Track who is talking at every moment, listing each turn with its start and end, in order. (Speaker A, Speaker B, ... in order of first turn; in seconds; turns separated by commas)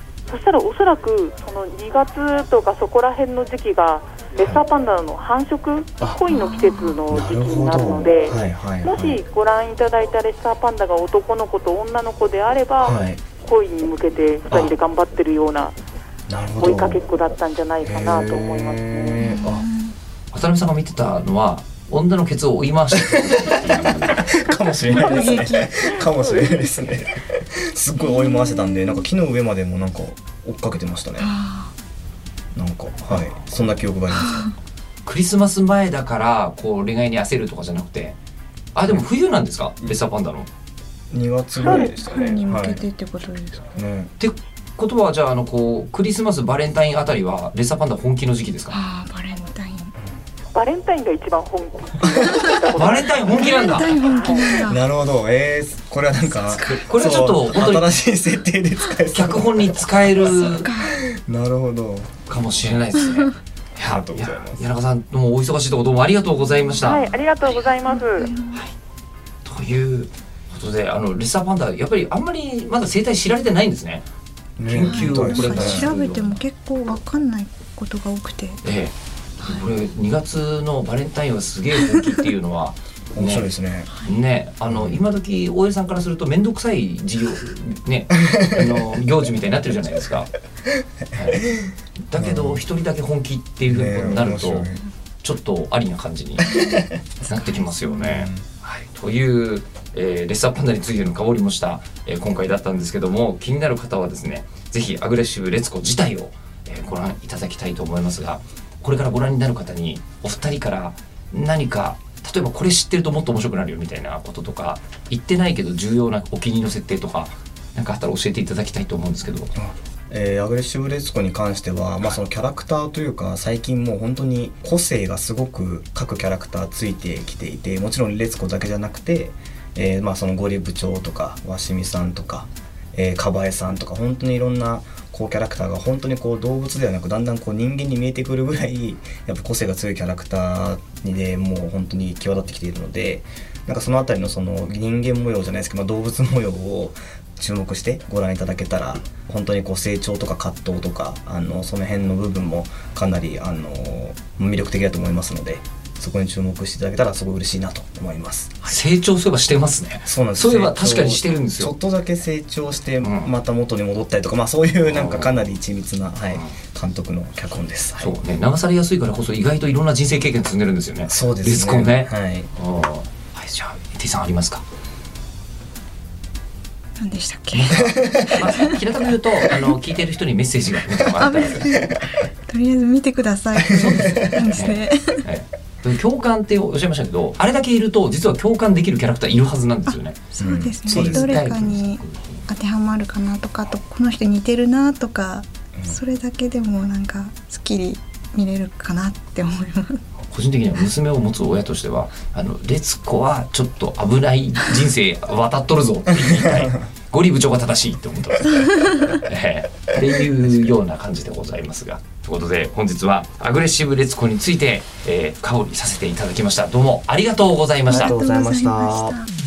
Speaker A: 0.3-15.8, Speaker B: 6.3-7.0, Speaker C: 7.1-9.2, Speaker C: 12.8-13.2, Speaker C: 14.5-14.7, Speaker C: 16.3-17.0, Speaker A: 16.6-19.2, Speaker C: 17.8-19.6, Speaker B: 19.2-19.9, Speaker D: 20.3-24.3, Speaker C: 23.0-31.3, Speaker B: 24.9-26.0, Speaker A: 25.9-26.6, Speaker B: 28.0-29.0, Speaker B: 31.2-31.7, Speaker C: 32.5-34.5, Speaker D: 35.0-38.2, Speaker D: 38.7-40.5, Speaker C: 41.1-42.9, Speaker B: 41.6-43.6, Speaker C: 43.6-44.1, Speaker D: 44.2-48.8, Speaker B: 48.7-49.9, Speaker A: 50.5-54.6, Speaker B: 52.1-52.6, Speaker D: 52.7-54.0, Speaker B: 53.3-54.8, Speaker C: 54.5-62.3, Speaker B: 56.2-57.4, Speaker D: 56.6-57.9, Speaker D: 59.1-60.7, Speaker B: 60.2-61.0, Speaker D: 62.3-67.1, Speaker C: 63.8-64.6, Speaker B: 66.7-68.7, Speaker A: 66.8-68.3, Speaker D: 69.4-74.0, Speaker C: 74.6-75.9, Speaker D: 74.7-76.4, Speaker B: 74.8-78.6, Speaker D: 78.6-83.5, Speaker B: 79.4-79.7, Speaker C: 83.1-83.9, Speaker D: 84.0-90.3, Speaker C: 84.7-85.0, Speaker D: 91.1-91.5, Speaker D: 92.1-94.7, Speaker C: 92.2-92.6, Speaker C: 93.6-94.8, Speaker D: 95.2-96.5, Speaker B: 96.4-98.0, Speaker C: 96.5-97.0, Speaker D: 97.2-119.5, Speaker C: 98.0-98.5, Speaker C: 119.5-158.8, Speaker D: 158.6-161.7, Speaker C: 160.0-168.1, Speaker D: 163.0-163.3, Speaker D: 164.9-165.4, Speaker D: 168.0-174.6, Speaker C: 171.1-172.5, Speaker B: 177.0-178.8, Speaker D: 177.5-181.7, Speaker B: 181.2-185.2, Speaker D: 183.8-190.3, Speaker C: 183.8-184.4, Speaker B: 189.9-200.0, Speaker C: 190.4-191.4, Speaker D: 190.9-192.4, Speaker D: 200.2-218.1, Speaker B: 217.9-219.3, Speaker C: 217.9-219.2